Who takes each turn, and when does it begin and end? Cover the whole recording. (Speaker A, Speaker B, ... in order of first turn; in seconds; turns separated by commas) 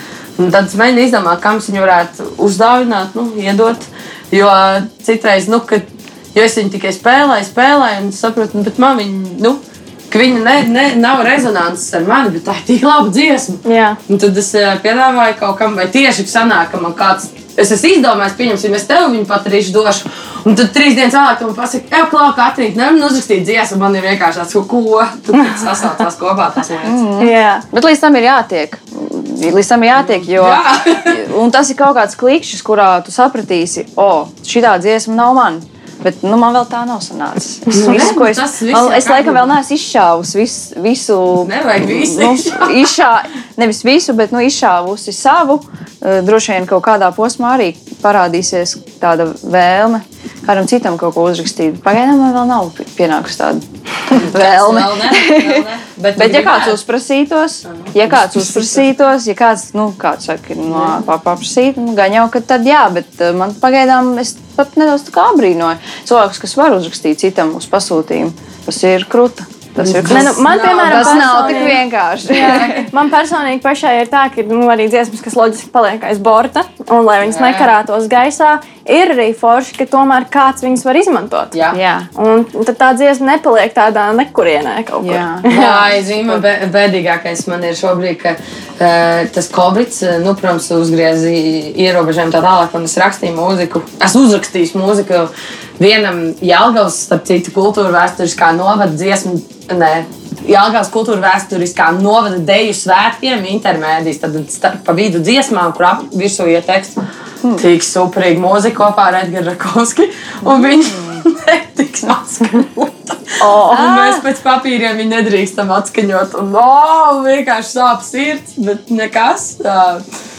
Speaker A: 0.4-27.0, Speaker B: 13.6-14.0, Speaker B: 25.4-25.6, Speaker C: 26.8-55.6, Speaker B: 27.2-27.6, Speaker A: 30.1-31.2, Speaker A: 37.7-39.5, Speaker A: 41.4-42.8, Speaker A: 54.1-56.8, Speaker C: 56.1-72.8, Speaker A: 57.7-58.8, Speaker A: 60.7-61.0, Speaker A: 69.8-71.8, Speaker B: 70.1-81.5, Speaker A: 72.4-72.8, Speaker A: 77.2-77.7, Speaker A: 81.5-81.8, Speaker C: 81.7-82.1, Speaker B: 82.2-85.9, Speaker C: 85.0-85.7, Speaker A: 85.5-107.0, Speaker A: 107.5-120.0, Speaker C: 110.4-111.2, Speaker B: 113.4-114.1, Speaker C: 113.7-114.2